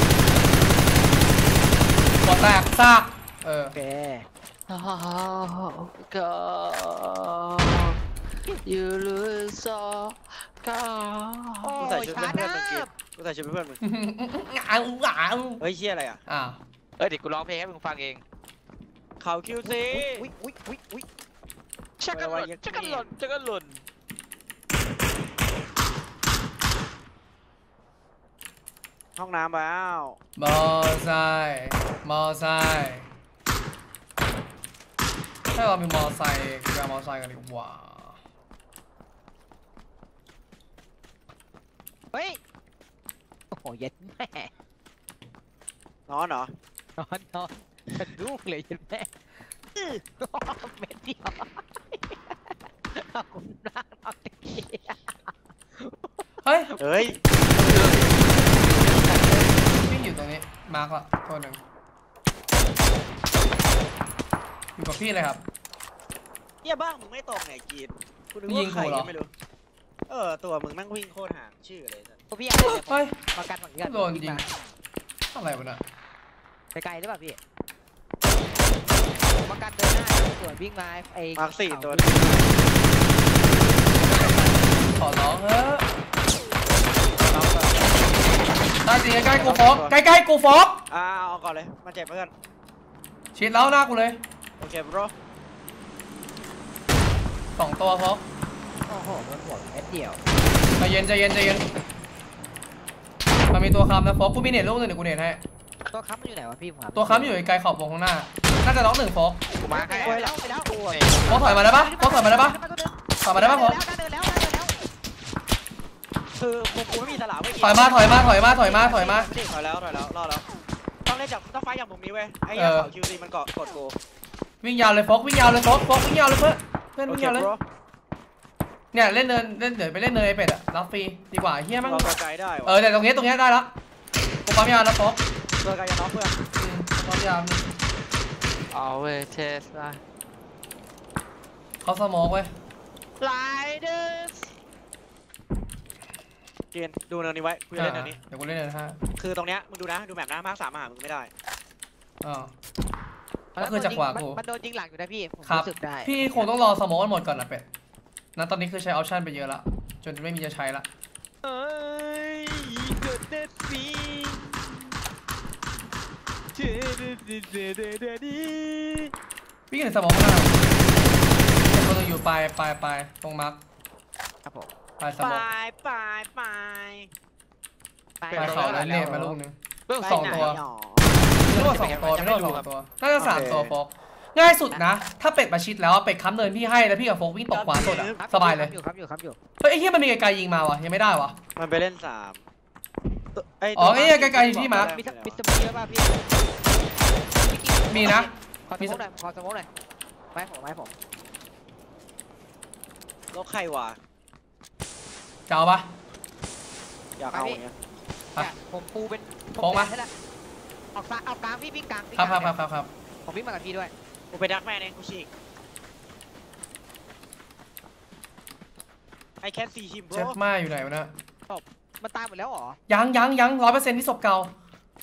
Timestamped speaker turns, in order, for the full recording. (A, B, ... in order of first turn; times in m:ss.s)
0:02.2-0:03.8 A
0:03.7-0:04.3 B
0:04.7-0:08.0 C
0:08.6-0:11.7 C
0:11.6-0:12.9 B
0:11.8-0:13.8 D
0:13.8-0:15.6 A
0:15.6-0:16.2 D
0:16.3-0:16.6 A
0:17.0-0:18.2 C
0:19.2-0:20.3 D
0:19.6-0:21.1 B
0:22.0-0:23.8 C
0:22.1-0:23.1 D
0:29.2-0:30.2 D
0:30.4-0:33.1 A
0:35.5-0:38.2 A
0:42.1-0:42.4 B
0:43.5-0:44.5 B
0:46.1-0:46.5 D
0:47.0-0:49.1 B
0:49.8-0:56.2 B
0:56.4-0:56.7 A
0:56.8-0:57.2 D
0:57.6-0:58.0 B
0:57.7-0:58.2 C
0:59.1-1:01.6 A
1:04.8-1:05.4 A
1:06.6-1:09.3 D
1:08.5-1:09.1 A
1:10.1-1:12.2 D
1:12.3-1:14.5 B
1:12.6-1:13.2 A
1:13.8-1:14.4 A
1:15.3-1:15.8 A
1:16.7-1:17.4 B
1:19.4-1:22.5 B
1:21.4-1:22.5 D
1:24.0-1:25.8 A
1:27.1-1:28.1 D
1:28.8-1:30.8 A
1:29.2-1:30.0 D
1:30.9-1:32.3 D
1:33.4-1:34.2 A
1:34.6-1:35.1 D
1:37.6-1:38.2 A
1:38.9-1:40.2 B
1:40.8-1:41.7 A
1:43.5-1:45.4 A
1:45.9-1:47.4 B
1:47.0-1:49.4 A
1:49.6-1:51.5 C
1:49.7-1:54.7 B
1:50.0-1:50.4 D
1:51.3-1:52.6 A
1:53.2-1:53.8 A
1:56.4-1:58.3 D
1:57.6-1:59.3 A
1:58.2-1:59.4 B
1:58.8-2:00.4 D
2:01.1-2:04.0 D
2:02.5-2:02.9 A
2:04.6-2:07.5 A
2:07.1-2:07.6 D
2:08.9-2:12.1 A
2:11.8-2:12.8 D
2:12.7-2:13.7 A
2:14.5-2:15.2 A
2:15.6-2:16.5 D
2:16.6-2:17.7 A
2:18.7-2:20.0 C
2:21.8-2:22.5 A
2:23.2-2:24.5 C
2:26.7-2:28.2 D
2:27.8-2:29.0 A
2:29.2-2:31.3 D
2:32.2-2:32.5 A
2:33.6-2:36.5 B
2:33.6-2:34.4 A
2:35.5-2:37.6 A
2:38.4-2:40.9 A
2:41.5-2:44.4 B
2:46.8-2:49.1 B
2:49.7-2:50.7 A
2:51.7-2:53.6 A
2:54.4-2:54.7 B
2:55.0-2:55.5 A
2:55.2-2:57.1 D
2:58.2-2:58.7 B
2:58.3-2:59.4 C
2:58.3-3:00.6 A
2:59.9-3:00.6 C
3:00.0-3:01.4 D
3:01.4-3:02.7 C
3:01.5-3:08.7 A
3:03.2-3:03.7 D
3:07.5-3:08.2 D
3:07.8-3:09.4 B
3:09.6-3:11.4 A
3:11.6-3:12.4 D
3:13.4-3:15.4 D
3:13.8-3:14.9 A
3:14.7-3:16.2 B
3:17.4-3:19.7 B
3:17.9-3:19.0 A
3:20.3-3:20.9 B
3:23.3-3:24.0 D
3:25.5-3:25.9 A
3:27.2-3:27.7 D
3:27.3-3:27.6 B
3:28.4-3:30.1 B
3:29.6-3:29.9 A
3:31.0-3:32.6 B
3:32.2-3:32.9 A
3:33.2-3:33.9 B
3:34.3-3:35.3 D
3:39.4-3:40.4 D
3:40.1-3:41.1 A
3:41.5-3:42.8 B
3:42.9-3:44.5 A